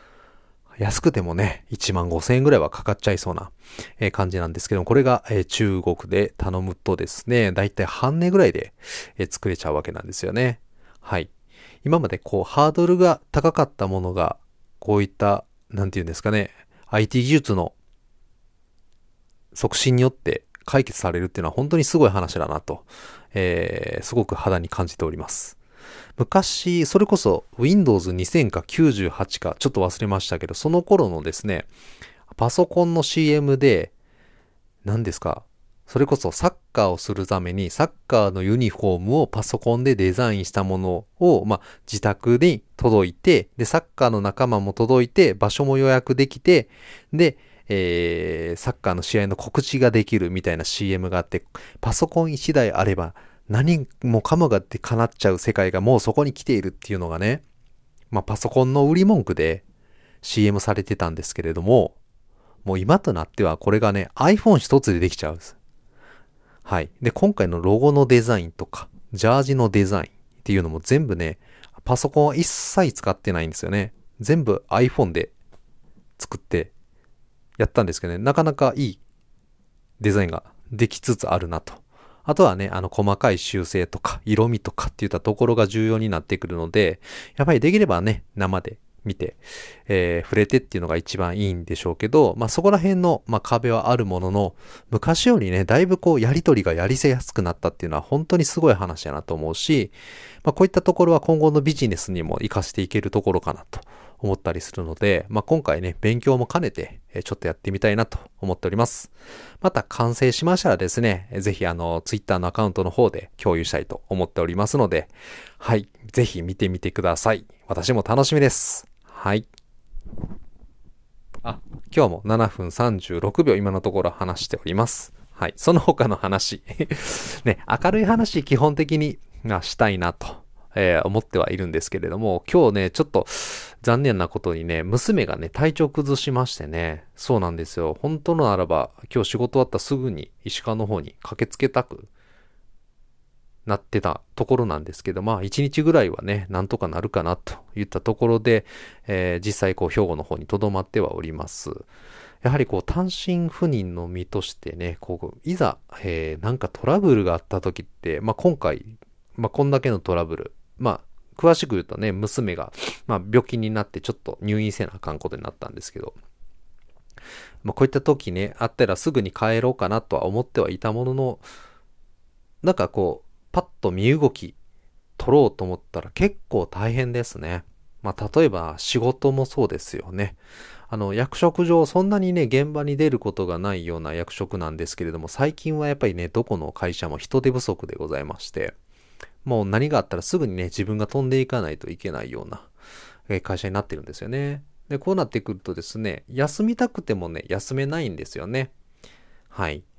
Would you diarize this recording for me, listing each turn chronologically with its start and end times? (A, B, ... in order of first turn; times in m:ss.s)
0:00.8-0:11.3 A
0:11.8-0:17.7 A
0:19.5-0:25.6 A
0:26.2-0:31.7 A
0:32.3-0:33.9 A
0:34.8-0:57.4 A
0:58.1-0:59.6 A
1:00.2-1:02.0 A
1:02.6-1:05.6 A
1:06.6-1:15.3 A
1:16.2-1:16.7 A
1:17.6-1:19.0 A
1:20.0-1:59.5 A
2:01.4-2:22.1 A
2:23.6-2:31.9 A
2:32.4-2:46.2 A
2:47.6-2:51.4 A
2:52.6-2:54.6 A
2:55.2-3:08.7 A
3:09.4-3:12.7 A
3:13.3-3:18.7 A
3:19.5-3:19.8 A